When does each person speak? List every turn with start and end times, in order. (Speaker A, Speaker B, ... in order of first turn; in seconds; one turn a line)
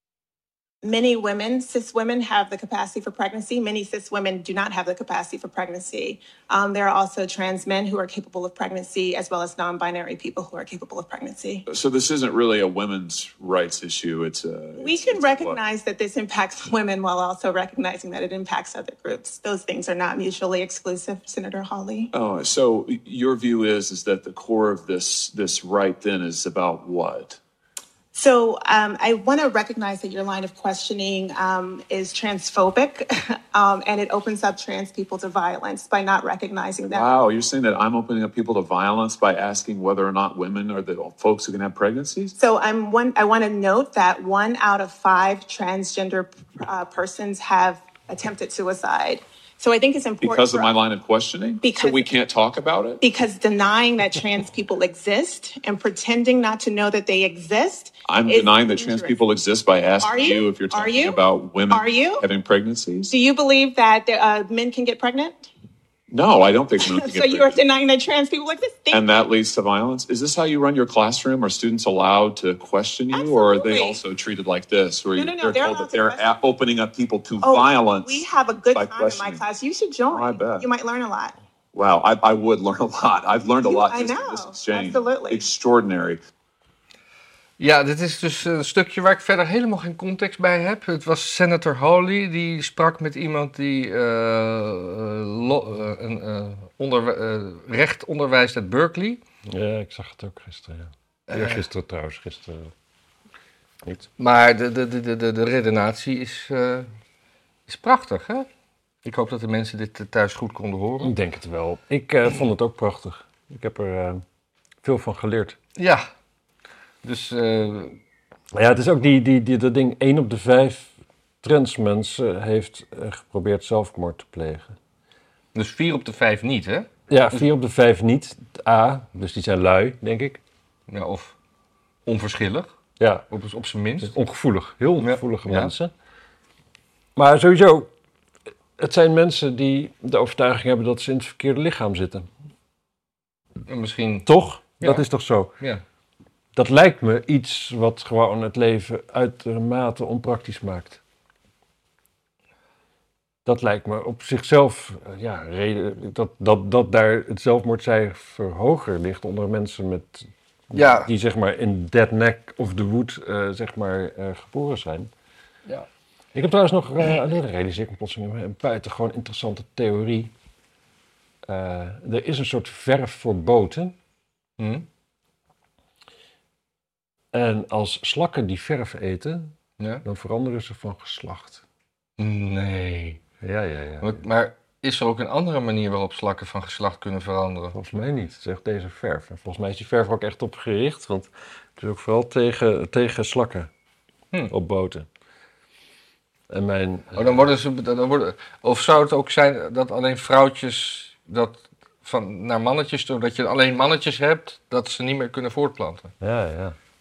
Speaker A: 0.8-11.7
Speaker B: 11.7-15.6
Speaker A: 14.8-22.1
Speaker B: 22.1-27.4
Speaker A: 28.1-37.1
Speaker B: 36.9-42.3
Speaker A: 42.4-50.8
Speaker B: 50.2-53.0
Speaker A: 51.6-52.1
Speaker A: 53.0-59.2
Speaker B: 58.1-63.1
Speaker A: 60.0-61.2
Speaker A: 61.7-62.2
Speaker A: 63.1-65.5
Speaker B: 66.1-67.6
Speaker A: 66.8-69.2
Speaker B: 68.9-79.4
Speaker A: 73.1-74.0
Speaker A: 75.1-76.3
Speaker A: 77.4-81.3
Speaker B: 80.1-80.7
Speaker B: 81.7-86.2
Speaker A: 83.6-85.5
Speaker C: 87.6-99.2
Speaker D: 99.5-102.7
Speaker C: 101.3-101.6
Speaker C: 104.2-106.9
Speaker C: 107.7-108.5
Speaker C: 109.0-111.1
Speaker D: 111.0-114.2
Speaker D: 114.8-115.6
Speaker C: 115.8-116.1
Speaker C: 117.0-118.0
Speaker D: 118.5-124.8
Speaker C: 125.5-127.5
Speaker D: 127.1-130.4
Speaker C: 130.9-131.4
Speaker C: 132.1-132.7
Speaker D: 133.0-133.3
Speaker C: 133.3-134.1
Speaker D: 134.0-135.9
Speaker C: 135.0-135.7
Speaker D: 137.2-137.9
Speaker D: 138.8-142.3
Speaker C: 143.7-144.3
Speaker D: 144.3-145.5
Speaker C: 144.8-145.1
Speaker D: 146.6-151.0
Speaker D: 153.4-165.1
Speaker C: 160.7-161.1
Speaker D: 166.3-170.3
Speaker D: 171.5-174.0
Speaker C: 174.6-174.9
Speaker D: 177.3-181.6
Speaker C: 179.8-180.0
Speaker C: 182.2-183.2
Speaker D: 183.4-184.2
Speaker C: 184.0-187.8
Speaker D: 187.7-193.7
Speaker D: 194.5-195.1
Speaker D: 196.5-197.4
Speaker C: 197.1-206.1
Speaker D: 206.2-206.8